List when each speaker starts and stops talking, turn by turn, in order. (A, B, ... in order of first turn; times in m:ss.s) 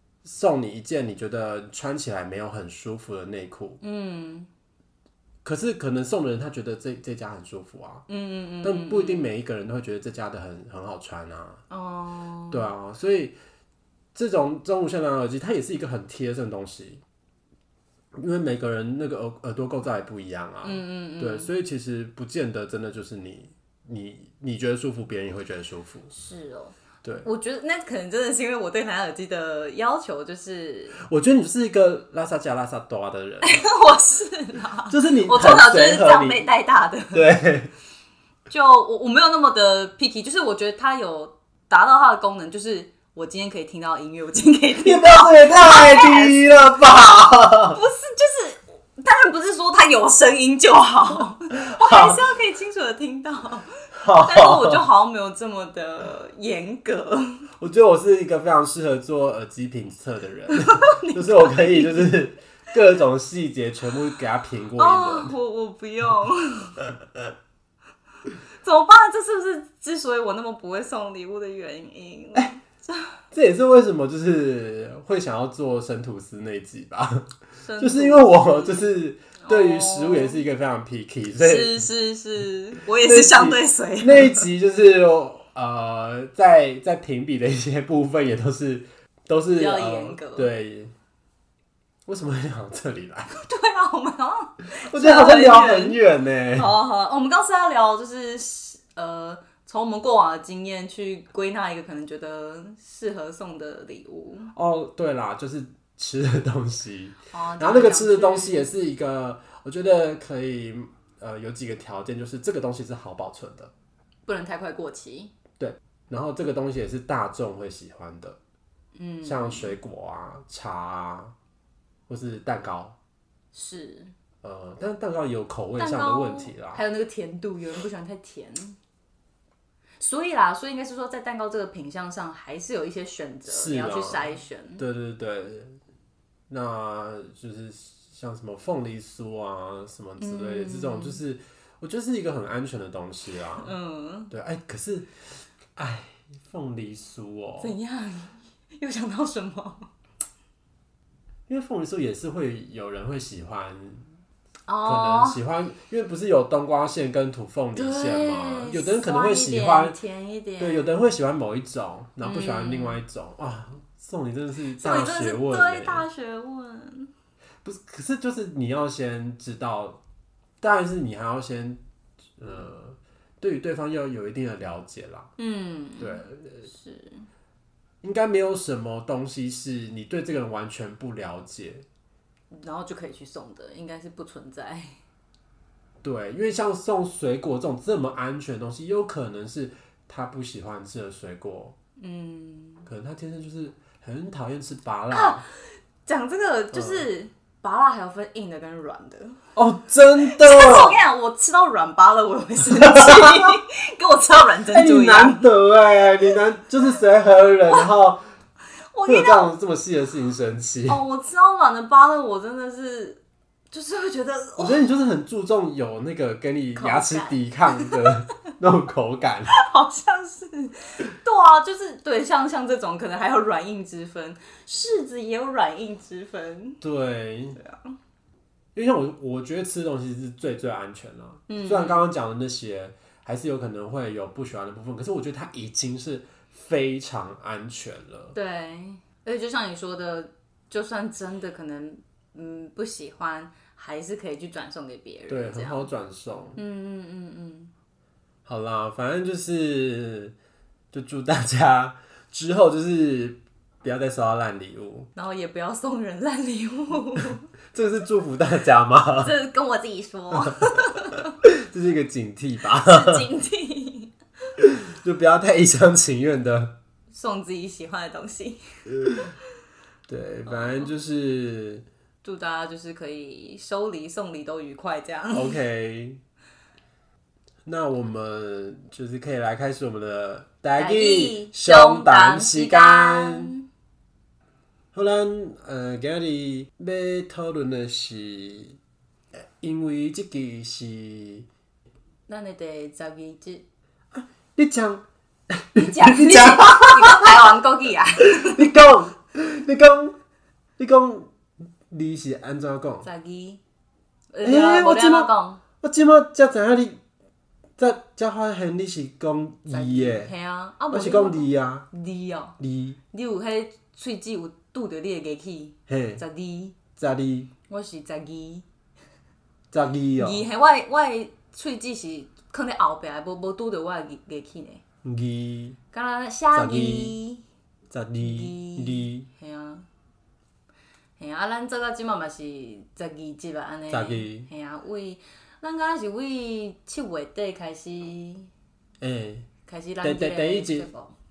0:00.2-0:03.8 A
0:03.8-0:04.5 B
0:05.4-0:08.0 A
0:08.1-0:09.3 B
0:08.6-0:11.6 A
0:11.7-0:12.7 B
0:12.5-0:13.4 A
0:14.1-0:17.0 A
0:18.2-0:26.1 A
0:20.6-0:21.5 B
0:26.1-0:31.0 B
0:31.0-0:33.6 A
0:33.4-0:37.3 B
0:34.9-0:36.4 A
0:37.1-0:37.7 A
0:38.5-0:46.5 B
0:44.8-0:47.8 A
0:47.7-0:53.7 B
0:51.6-0:52.2 A
0:53.9-0:54.8 A
0:54.2-0:57.4 B
0:57.6-1:05.3 A
1:00.5-1:02.1 B
1:04.8-1:06.8 B
1:08.6-1:13.1 B
1:13.3-1:17.3 A
1:17.6-1:18.9 B
1:17.8-1:21.8 A
1:19.4-1:20.4 B
1:21.4-1:24.4 B
1:23.0-1:30.9 A
1:29.5-1:30.5 B
1:32.1-1:33.3 A
1:33.3-1:36.0 B
1:34.9-1:36.7 A
1:36.5-1:44.5 B
1:44.5-1:53.7 A
1:47.3-1:48.7 B
1:54.2-1:55.3 B
1:55.6-1:58.4 A
1:58.9-1:59.8 B
1:59.2-2:01.3 A
2:02.1-2:03.0 A
2:03.5-2:04.1 B
2:04.4-2:06.8 A
2:05.8-2:08.8 B
2:10.0-2:14.8 B
2:13.5-2:15.8 A
2:16.5-2:23.7 A
2:20.2-2:21.2 B
2:23.6-2:24.3 B
2:24.3-2:25.1 A
2:25.8-2:27.7 A
2:27.6-2:29.9 B
2:31.5-2:34.1 A
2:34.7-2:35.4 B
2:34.8-2:40.0 A
2:37.7-2:40.9 B
2:40.6-2:46.0 A
2:42.2-2:43.0 B
2:44.8-2:47.1 B
2:47.6-2:50.0 A
2:50.6-2:51.8 A
2:52.4-2:55.3 A
2:55.4-2:57.3 B
2:56.0-2:56.7 A
2:58.0-3:01.8 A
3:02.5-3:05.0 B
3:06.0-3:11.8 A
3:12.0-3:12.9 B
3:12.8-3:15.4 A
3:15.1-3:15.5 B
3:16.0-3:19.4 B
3:16.7-3:17.0 A
3:19.6-3:21.0 A
3:20.2-3:25.5 B
3:22.7-3:23.6 A
3:24.7-3:28.2 A
3:28.9-3:29.5 B
3:29.1-3:31.0 A
3:30.9-3:34.8 B
3:34.6-3:39.5 A
3:36.8-3:38.1 B
3:39.5-3:46.8 B
3:46.8-3:47.6 A
3:47.6-3:48.0 B
3:48.7-3:58.3 A
3:51.5-3:52.1 B
3:58.3-4:05.9 B
4:05.3-4:06.6 A
4:06.6-4:07.7 B
4:08.4-4:10.3 A
4:10.9-4:15.1 A
4:15.1-4:17.4 B
4:17.7-4:19.3 A
4:19.2-4:21.3 B
4:20.3-4:20.9 A
4:21.4-4:23.2 A
4:22.8-4:24.1 B
4:24.6-4:26.7 A
4:27.1-4:28.6 B
4:29.0-4:29.3 A
4:30.1-4:31.8 A
4:30.4-4:30.9 B
4:32.2-4:35.6 B
4:35.3-4:36.2 A
4:37.6-4:43.5 A
4:40.8-4:43.6 B
4:44.9-4:48.8 A
4:49.6-4:51.5 A
4:52.3-4:53.6 B
4:54.1-4:57.3 A
4:55.8-4:58.7 B
4:58.2-5:00.1 A
5:00.8-5:01.3 A
5:01.9-5:03.1 A
5:03.0-5:03.6 B
5:04.3-5:05.6 B
5:04.4-5:05.3 A
5:05.8-5:07.0 A
5:07.8-5:10.3 A
5:09.7-5:12.6 B
5:10.9-5:11.9 A
5:12.6-5:13.0 A
5:13.1-5:16.8 B
5:15.9-5:16.2 A
5:17.0-5:17.5 A
5:17.7-5:18.6 B
5:19.7-5:20.4 A
5:20.2-5:24.8 B
5:25.0-5:25.8 A
5:25.9-5:27.4 B
5:26.5-5:27.1 A
5:27.9-5:29.3 A
5:28.2-5:29.8 B
5:31.2-5:38.5 B
5:33.9-5:34.5 A
5:39.0-5:39.5 A
5:39.6-5:41.1 B
5:40.0-5:40.9 A